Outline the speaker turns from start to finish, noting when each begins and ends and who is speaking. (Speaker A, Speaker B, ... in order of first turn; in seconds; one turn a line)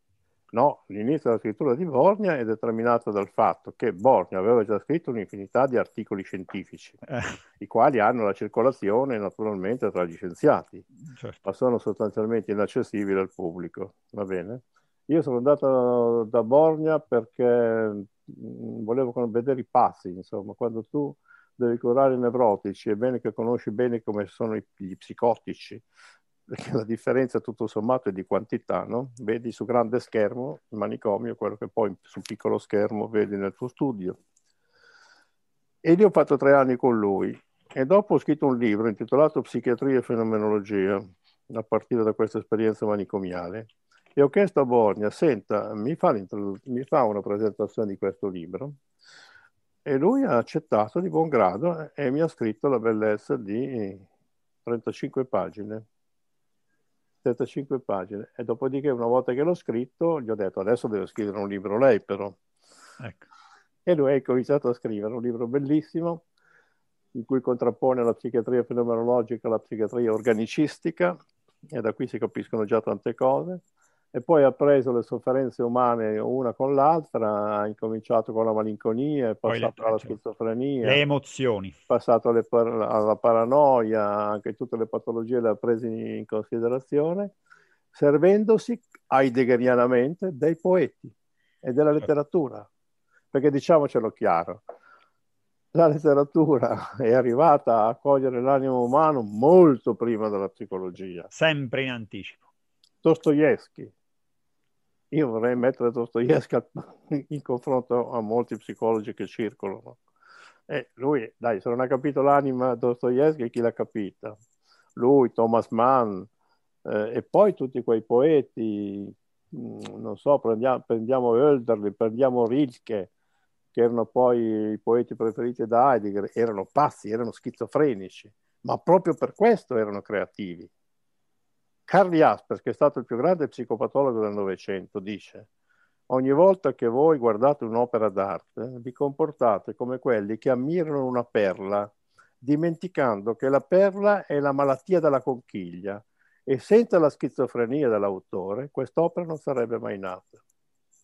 Speaker A: 0.5-7.0
Speaker A: 7.6-10.8
Speaker B: 11.1-11.4
Speaker A: 11.4-25.8
Speaker A: 26.5-34.2
Speaker A: 35.8-48.7
Speaker A: 49.8-54.1
Speaker A: 54.6-55.8
Speaker A: 57.2-62.4
Speaker A: 63.9-66.2
Speaker A: 67.1-71.2
Speaker A: 71.7-73.6
Speaker A: 74.1-81.0
Speaker B: 79.4-80.2
Speaker B: 80.8-81.7
Speaker A: 81.9-87.3
Speaker A: 87.9-92.7
Speaker A: 93.3-94.6
Speaker A: 95.7-101.3
Speaker B: 101.3-102.4
Speaker A: 103.0-103.9
Speaker A: 105.1-110.0
Speaker A: 110.7-114.4
Speaker A: 115.0-116.3
Speaker A: 116.8-123.1
Speaker A: 123.7-130.7
Speaker A: 131.9-135.5
Speaker A: 136.1-150.4